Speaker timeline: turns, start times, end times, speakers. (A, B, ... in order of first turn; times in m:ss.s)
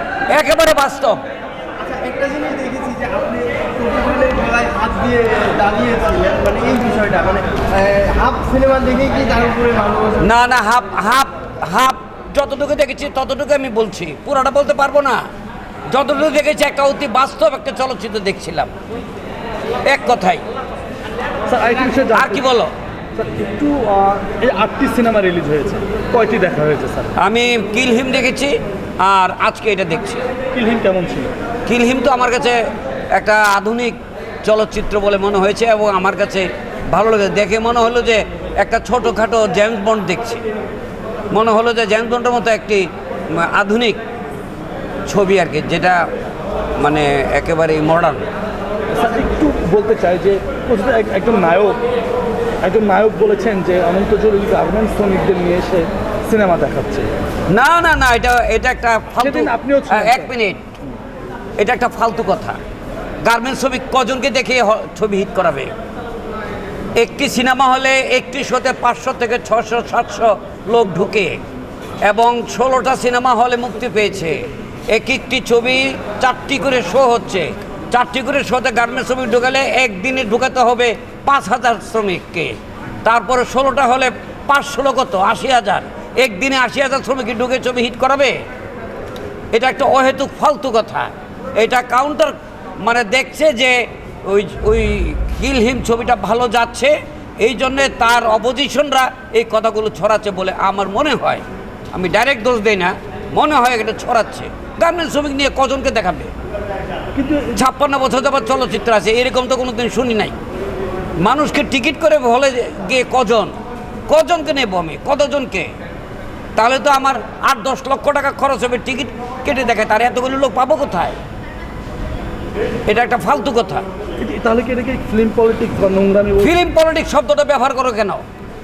0:00.3-0:01.2 A
0:01.8-0:10.2 B
0:10.2-0:15.2 A
0:15.9-0:18.7 A
0:19.8-0:20.4 A
0:21.5-0:22.4 C
0:22.1-0:22.7 A
0:23.2-0:27.1 C
0:27.2-0:30.2 A
0:30.5-0:31.3 C
0:31.7-0:32.6 A
0:33.1-0:40.4 A
0:41.3-0:44.0 A
0:45.1-0:46.0 A
0:46.8-0:48.3 A
0:48.9-0:51.8 C
0:52.6-0:57.1 C
0:57.5-1:00.7 A
0:59.2-1:00.3 C
1:01.6-1:02.6 A
1:03.2-1:05.7 A
1:07.0-1:11.4 A
1:12.0-1:28.4 A
1:29.5-1:46.3 A
1:47.1-1:47.6 C
1:47.5-1:50.3 A
1:51.2-1:53.5 A
1:54.1-1:55.7 A
1:56.6-2:01.2 A
2:02.9-2:03.8 A
2:04.2-2:06.5 C
2:06.4-2:08.2 A